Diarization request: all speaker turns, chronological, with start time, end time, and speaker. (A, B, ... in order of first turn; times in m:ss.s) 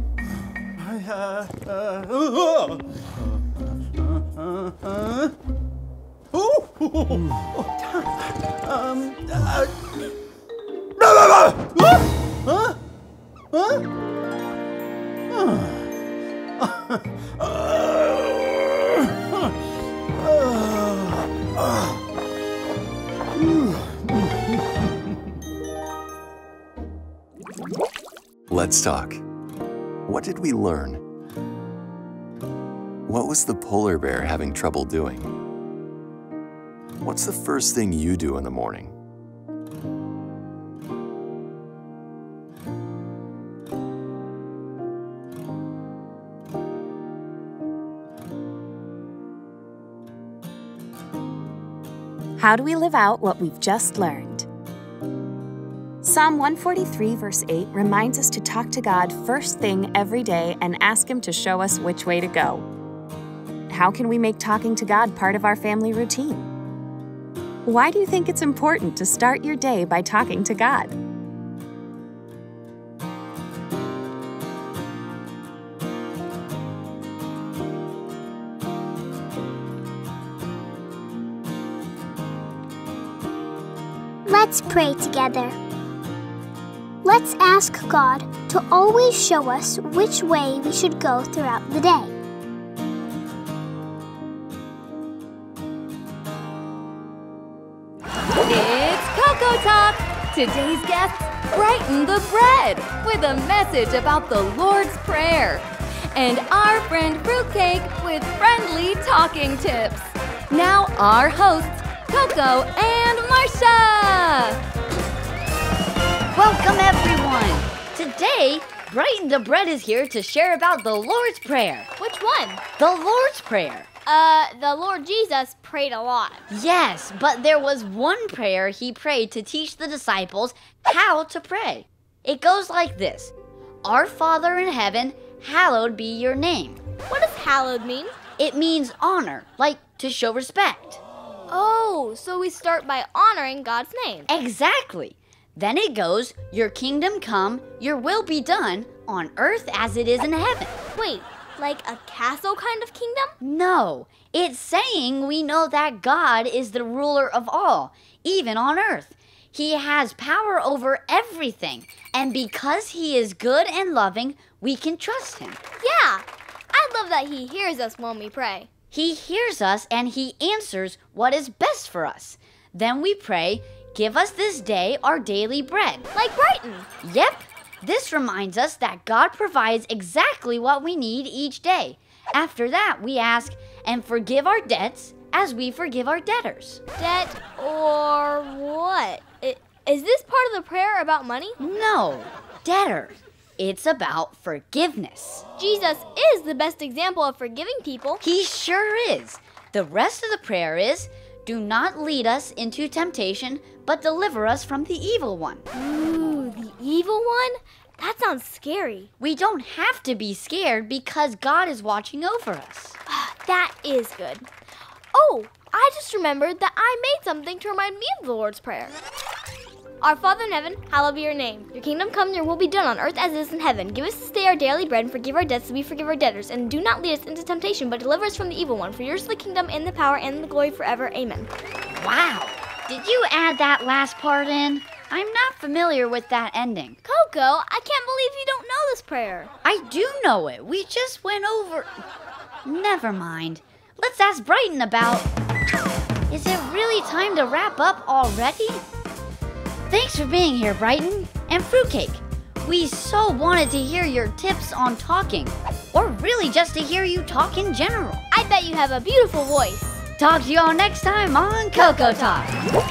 0:00.8-0:02.8 A
0:04.2-0:05.3 A
0:06.4-0:08.0 A
0:08.6-0:09.7 A
0:11.0-0:12.7 A
0:13.6-0:13.8 A
0:15.4-0:15.6 A
0:17.5-0:18.1 A
0:20.2-0:21.1 A
0:28.5-0:29.2 B
0:30.1-0:31.0 B
0:33.1-0:35.3 B
0:37.0-0:39.0 B
0:52.4-0:54.5 C
0:56.0-1:02.6 C
1:03.7-1:06.5 C
1:07.6-1:11.0 C
1:24.2-1:25.6 D
1:27.0-1:32.1 D
1:38.4-1:54.6 E
1:56.3-2:01.9 F
2:02.0-2:02.6 G
2:02.8-2:03.9 F
2:04.0-2:06.4 G
2:06.5-2:13.3 F
2:13.8-2:16.8 F
2:17.1-2:18.2 G
2:18.4-2:21.0 F
2:21.5-2:24.3 G
2:24.3-2:30.8 F
2:31.0-2:33.3 G
2:33.4-2:45.6 F
2:45.8-2:48.7 G
2:48.9-2:56.1 F
2:56.1-2:56.9 G
2:57.0-3:06.8 F
3:07.0-3:11.6 G
3:11.6-3:15.4 F
3:15.6-3:18.2 G
3:18.2-3:25.6 F
3:25.7-3:29.1 G
3:29.2-3:33.0 F
3:33.1-3:34.5 G
3:35.1-3:39.0 G
3:40.0-3:51.5 G
3:52.0-3:57.0 F
3:57.0-3:59.5 G
3:59.6-4:02.0 F
4:02.6-4:05.3 F
4:06.3-4:08.8 F
4:09.9-4:18.3 F
4:18.3-4:19.9 G
4:20.2-4:22.5 F